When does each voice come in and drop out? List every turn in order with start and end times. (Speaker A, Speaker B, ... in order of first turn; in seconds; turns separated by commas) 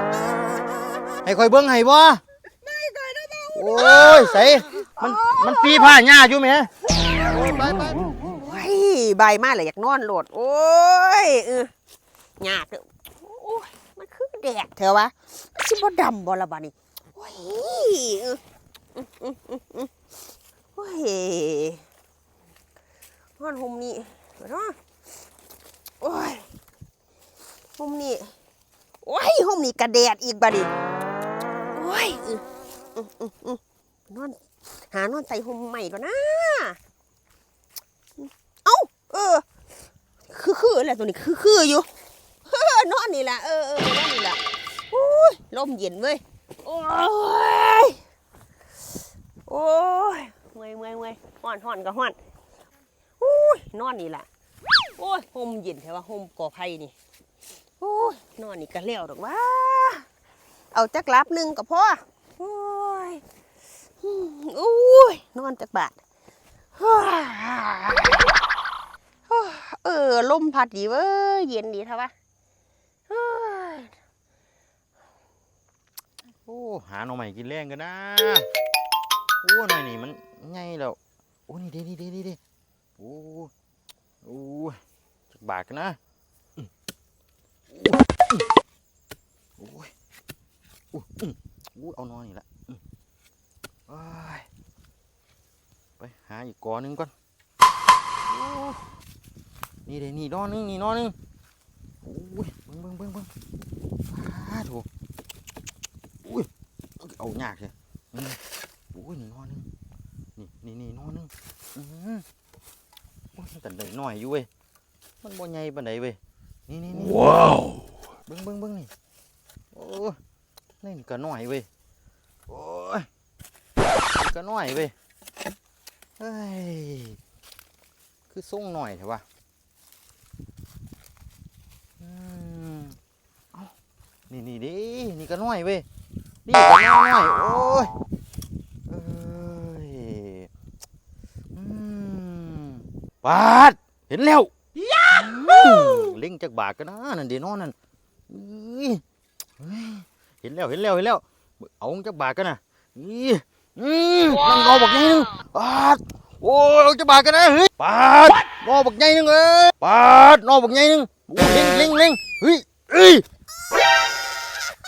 Speaker A: 1.2-2.2, Speaker B: 2.6-6.0, Speaker A: 3.5-6.7, Speaker B: 7.0-7.4, Speaker A: 7.2-8.3, Speaker B: 8.2-11.7, Speaker B: 12.4-18.4, Speaker B: 19.0-19.9, Speaker B: 20.8-21.8, Speaker B: 23.4-24.8, Speaker B: 26.0-26.5, Speaker B: 27.8-28.4, Speaker B: 29.0-30.7, Speaker B: 31.8-32.4, Speaker B: 33.0-36.8, Speaker B: 38.2-39.5, Speaker B: 40.3-41.9, Speaker B: 42.5-44.4, Speaker B: 44.9-48.0, Speaker B: 49.5-52.2, Speaker B: 53.2-54.3, Speaker B: 55.0-56.9, Speaker B: 57.8-60.1, Speaker B: 60.7-63.2, Speaker B: 64.0-66.0, Speaker B: 66.8-68.3, Speaker B: 69.3-72.1, Speaker B: 73.1-73.9, Speaker A: 76.5-78.5, Speaker A: 79.4-82.4, Speaker A: 83.0-83.5, Speaker A: 84.2-84.8, Speaker A: 85.3-86.0, Speaker A: 87.7-88.4, Speaker A: 89.6-89.9, Speaker A: 90.9-92.8, Speaker A: 93.9-94.5, Speaker A: 96.0-97.1, Speaker A: 98.3-98.9, Speaker A: 99.9-101.2, Speaker A: 102.0-103.3, Speaker A: 104.1-104.9, Speaker A: 106.2-106.5, Speaker A: 107.0-108.4, Speaker A: 108.9-109.7, Speaker A: 110.4-112.2, Speaker A: 113.3-114.5, Speaker A: 115.2-117.7, Speaker A: 118.3-118.9, Speaker A: 119.7-120.2, Speaker A: 120.8-121.7, Speaker A: 122.5-123.1, Speaker A: 124.2-124.9, Speaker A: 126.2-127.2, Speaker A: 128.3-129.2, Speaker A: 132.0-133.0, Speaker A: 134.3-135.8, Speaker A: 136.5-137.9, Speaker A: 138.9-140.5, Speaker A: 141.5-144.5, Speaker B: 145.0-146.2, Speaker A: 145.1-147.8, Speaker A: 148.3-149.0, Speaker A: 149.6-163.2